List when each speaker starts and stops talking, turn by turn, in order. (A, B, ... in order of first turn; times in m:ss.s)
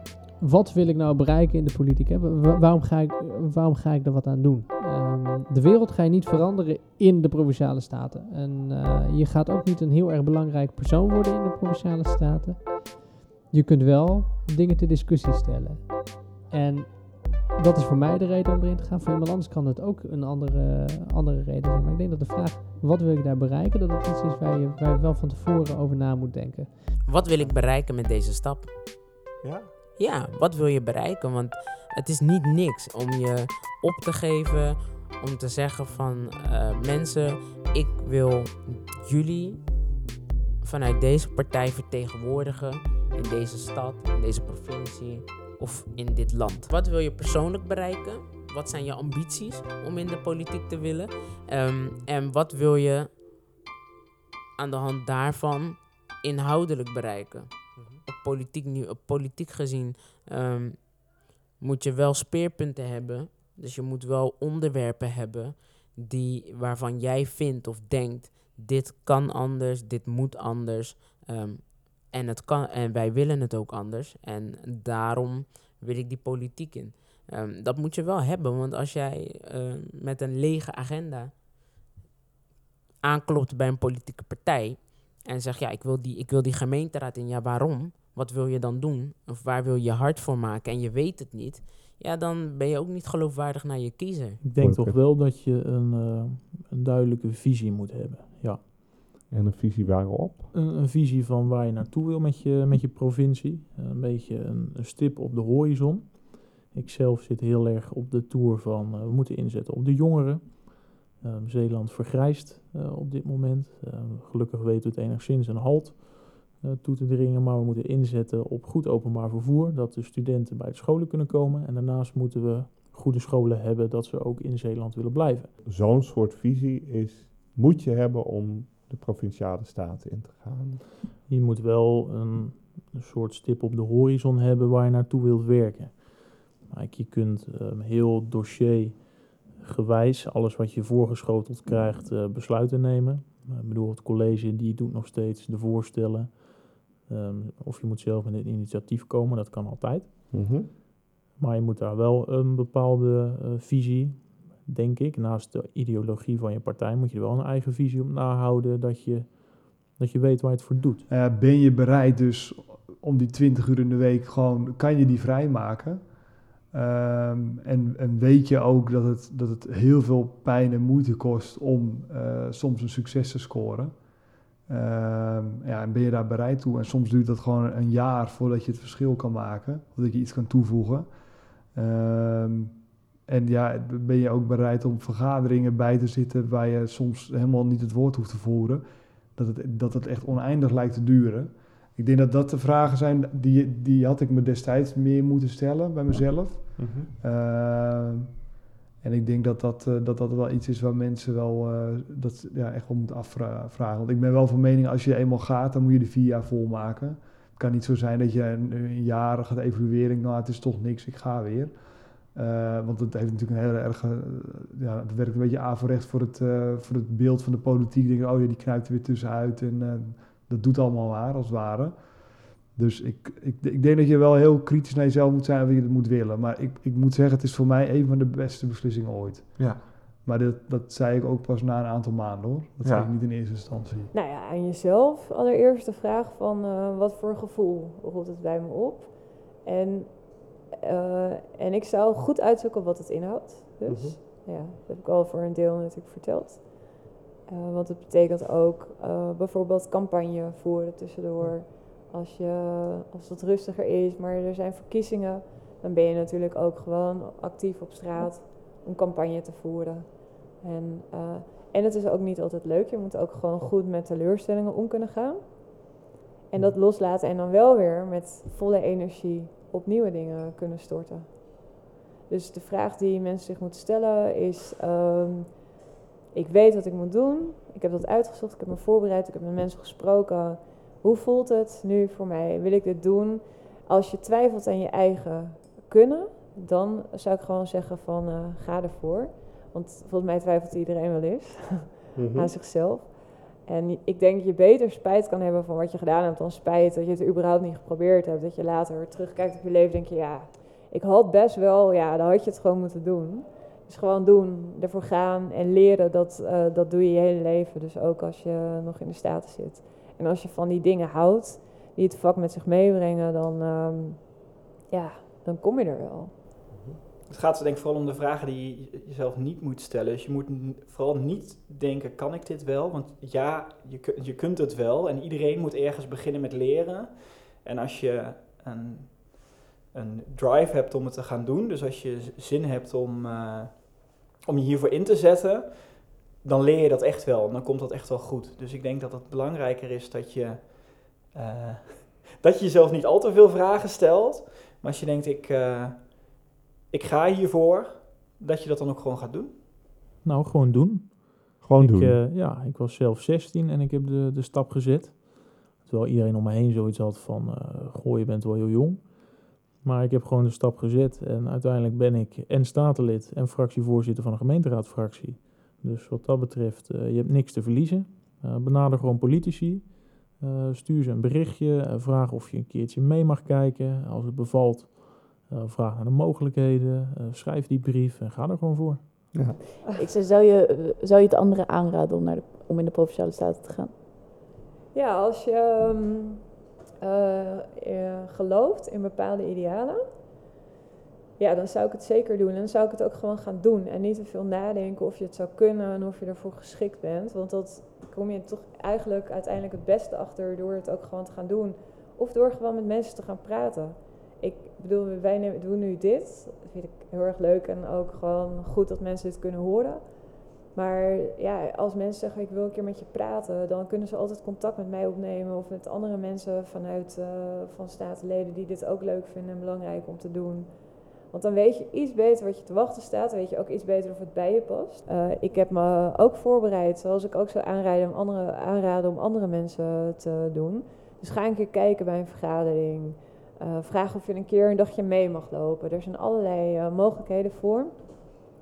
0:00.4-0:27.0 A
0:27.1-0:28.8 B
0:29.4-0:29.7 C
0:30.0-0:39.7 B
0:40.6-0:53.2 B
0:54.6-1:21.4 B
0:57.8-0:58.0 C
1:23.0-1:34.4 B
1:34.4-1:39.2 D
1:34.5-1:35.0 C
1:39.3-1:40.5 C
1:40.5-2:05.5 D
2:05.6-2:10.9 C
2:11.2-2:30.3 D
2:30.3-2:30.7 C
2:31.2-2:41.0 D
2:41.1-2:54.0 E
2:54.7-3:01.1 E
3:01.7-3:18.4 E
3:16.8-3:17.1 C
3:19.0-3:31.7 E
3:32.3-3:42.2 E
3:42.7-3:54.1 E
3:54.1-4:26.0 F
4:03.9-4:04.2 C
4:26.5-4:35.6 F
4:36.3-5:16.5 F
4:52.1-4:52.5 C
5:16.7-5:17.0 C
5:17.3-5:49.6 G
5:50.2-6:19.3 D
5:51.6-5:52.2 C
6:19.3-6:19.6 C
6:19.8-6:24.0 H
6:24.9-6:30.0 F
6:31.4-7:18.4 F